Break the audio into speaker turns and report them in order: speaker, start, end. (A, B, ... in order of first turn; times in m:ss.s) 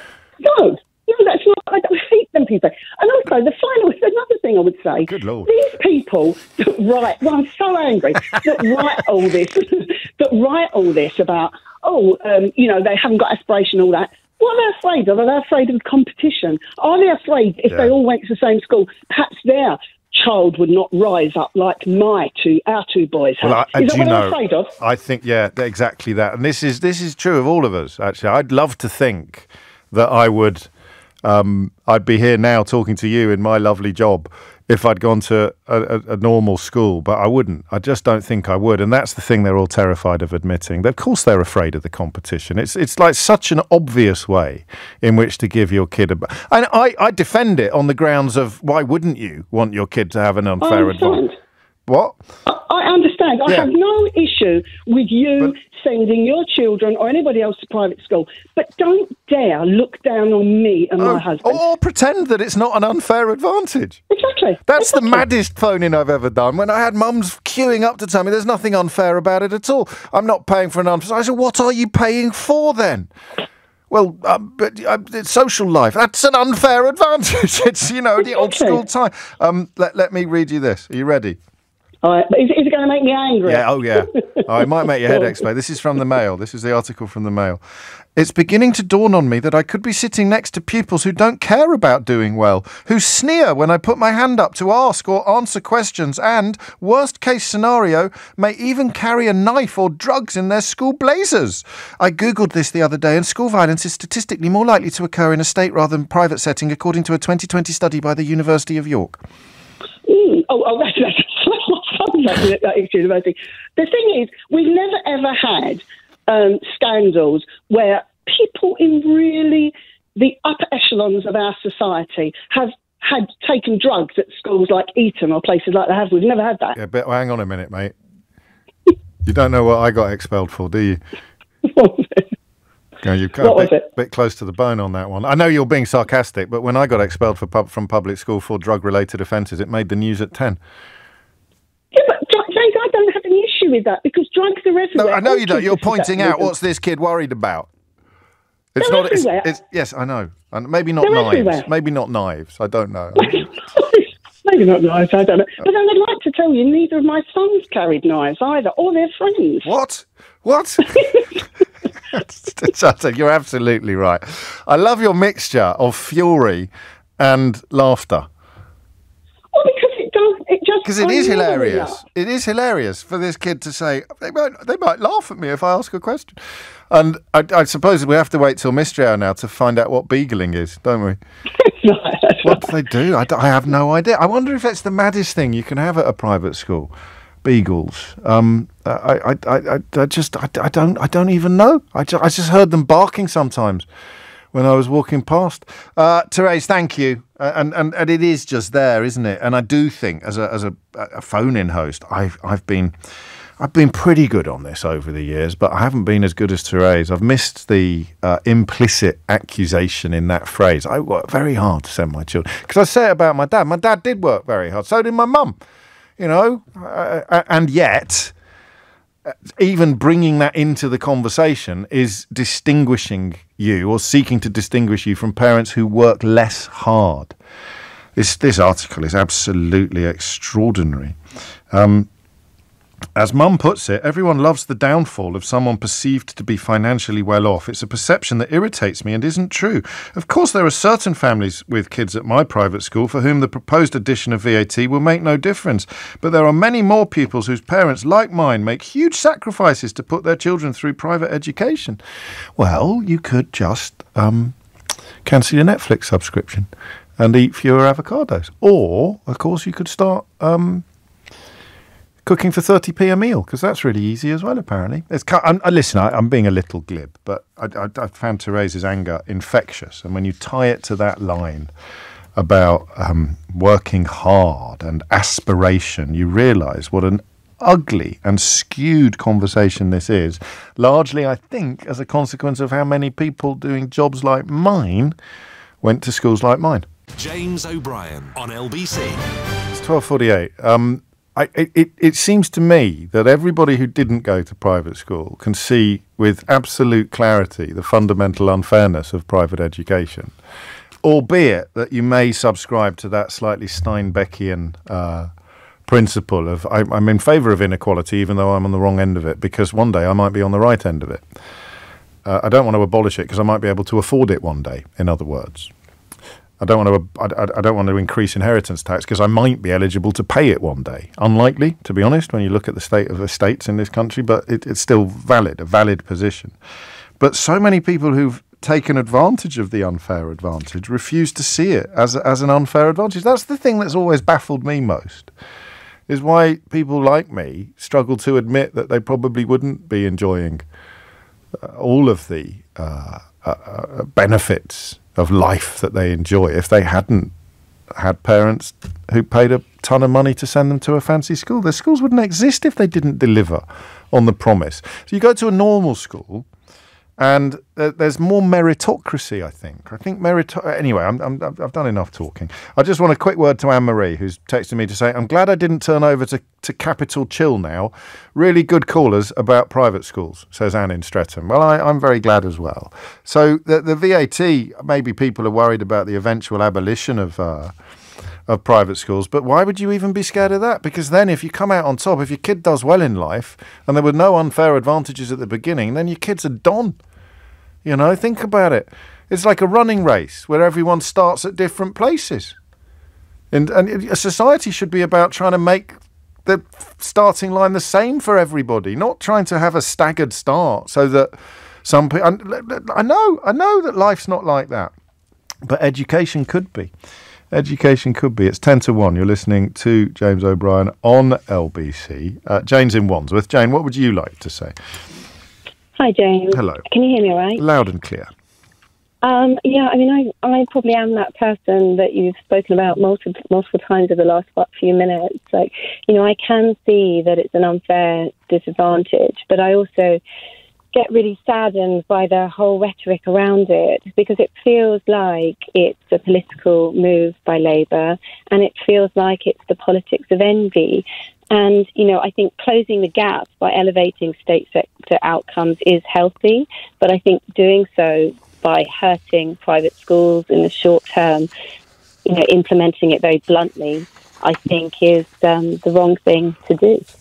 0:00.4-0:24.7 A
0:05.0-0:05.5 B
0:23.4-0:30.7 B
0:31.2-0:51.2 B
0:50.6-0:51.3 A
0:51.9-0:52.2 B
0:52.5-1:01.6 A
1:01.0-1:04.0 B
1:04.1-1:05.2 A
1:04.7-1:13.1 B
1:13.9-1:21.4 B
1:18.2-1:18.8 A
1:22.0-1:24.4 A
1:23.4-1:27.6 B
1:25.0-1:25.4 A
1:28.2-1:49.2 B
1:50.1-2:06.7 A
2:06.7-2:07.9 B
2:09.2-2:11.0 B
2:11.6-2:12.2 A
2:13.0-2:20.6 B
2:13.4-2:13.8 A
2:21.9-2:26.5 A
2:24.9-2:27.7 B
2:28.8-2:33.4 B
2:28.8-2:29.5 A
2:31.0-2:31.7 A
2:33.2-2:39.7 A
2:39.6-2:41.0 B
2:41.0-2:41.2 A
2:42.1-2:48.3 B
2:49.5-2:52.0 A
2:50.8-2:56.4 B
2:56.9-3:01.2 B
3:01.8-3:02.6 A
3:02.4-3:06.9 B
3:07.4-3:13.8 B
3:14.5-3:22.9 B
3:23.6-3:35.6 B
3:36.2-3:38.3 B
3:39.3-3:47.3 B
3:48.2-3:51.2 B
3:51.7-3:52.1 B
3:53.2-4:12.0 B
4:12.6-4:14.6 B
4:15.2-4:20.8 B
4:22.2-4:31.7 B
4:32.4-4:45.1 B
4:45.8-4:46.8 B
4:47.2-4:49.3 C
4:49.7-5:00.3 B
5:01.0-5:05.3 B
5:05.9-5:11.2 B
5:12.2-5:15.7 B
5:16.6-5:26.5 B
5:27.2-5:35.3 B
5:36.1-5:40.6 B
5:41.6-5:47.3 B
5:48.0-5:56.4 B
5:57.2-6:17.7 B
6:18.5-6:27.0 B
6:27.8-6:32.6 B
6:33.5-6:41.3 B
6:41.8-6:44.9 B
6:45.6-6:46.9 B
6:47.5-6:54.7 B
6:56.0-6:57.6 D
6:56.5-6:56.8 B
6:57.6-6:58.3 B
6:59.2-7:10.2 D
7:10.9-7:31.5 D
7:32.2-7:37.1 D